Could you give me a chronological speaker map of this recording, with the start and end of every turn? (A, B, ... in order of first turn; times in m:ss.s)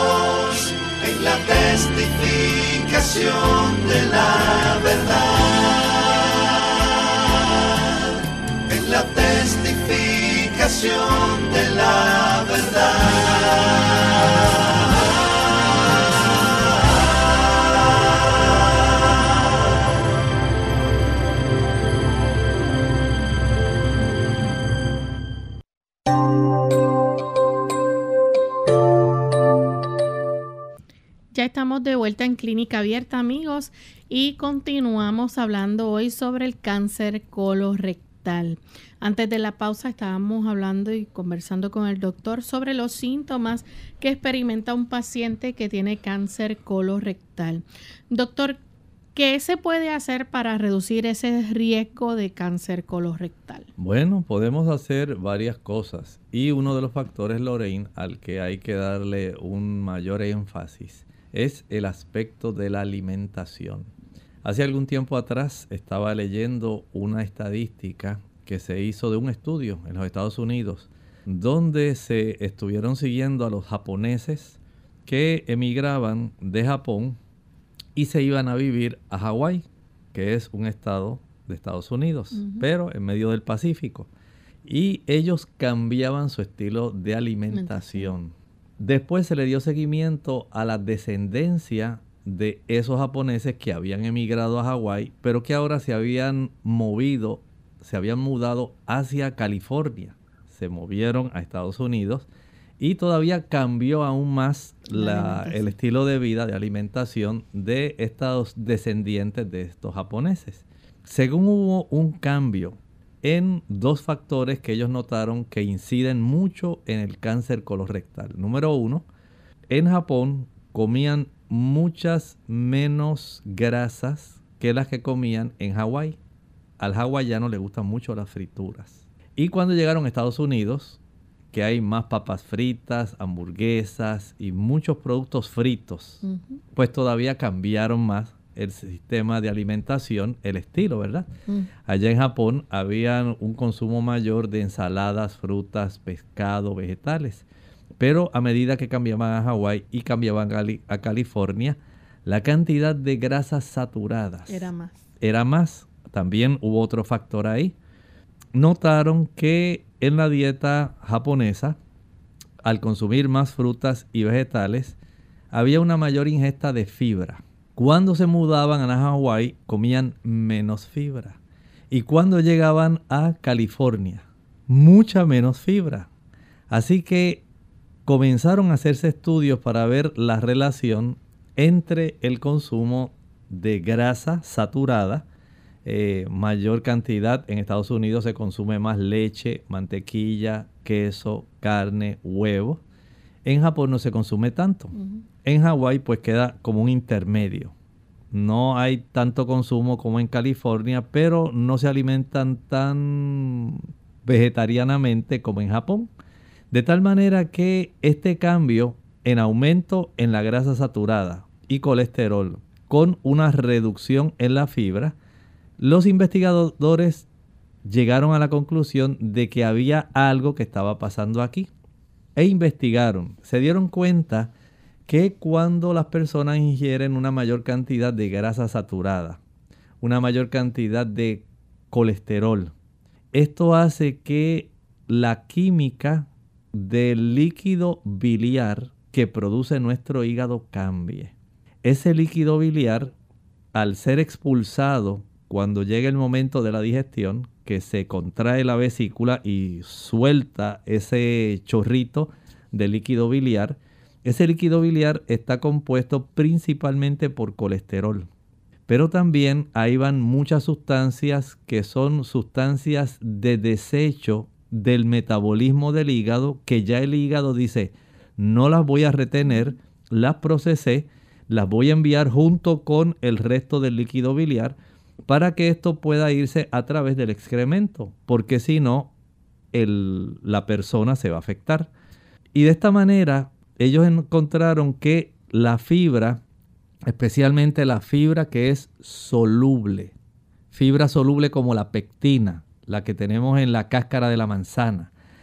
0:00.6-0:05.7 A
0:08.7-0:13.3 A
0:31.3-0:48.6 B
0:49.2-0:53.7 B
0:53.8-1:03.9 C
1:04.4-1:17.2 C
1:18.0-1:24.1 C
1:22.4-1:22.6 B
1:24.6-1:42.3 C
1:27.5-1:28.1 B
1:42.8-1:59.1 C
1:44.9-1:45.7 B
1:59.7-2:06.2 C
2:06.8-2:11.0 C
2:11.5-2:16.2 C
2:16.2-2:16.6 B
2:16.8-2:21.3 C
2:21.9-2:27.4 C
2:28.0-2:34.7 C
2:34.5-2:35.0 B
2:35.2-2:37.8 C
2:38.5-2:41.8 C
2:42.6-2:45.0 C
2:45.5-2:51.4 C
2:51.9-2:56.1 C
2:56.7-2:57.4 C
2:58.1-3:05.2 C
3:05.8-3:12.8 C
3:13.4-3:17.7 C
3:18.3-3:26.1 C
3:26.7-3:35.2 C
3:35.8-3:37.3 C
3:37.8-3:41.7 C
3:42.4-3:44.5 C
3:45.1-3:49.4 C
3:50.0-3:52.7 C
3:53.3-4:01.3 C
4:01.8-4:03.1 C
4:03.7-4:18.3 C
4:18.9-4:34.8 C
4:35.3-4:39.1 C
4:39.7-4:41.9 C
4:42.6-4:46.4 C
4:47.1-4:50.1 C
4:50.7-4:55.1 C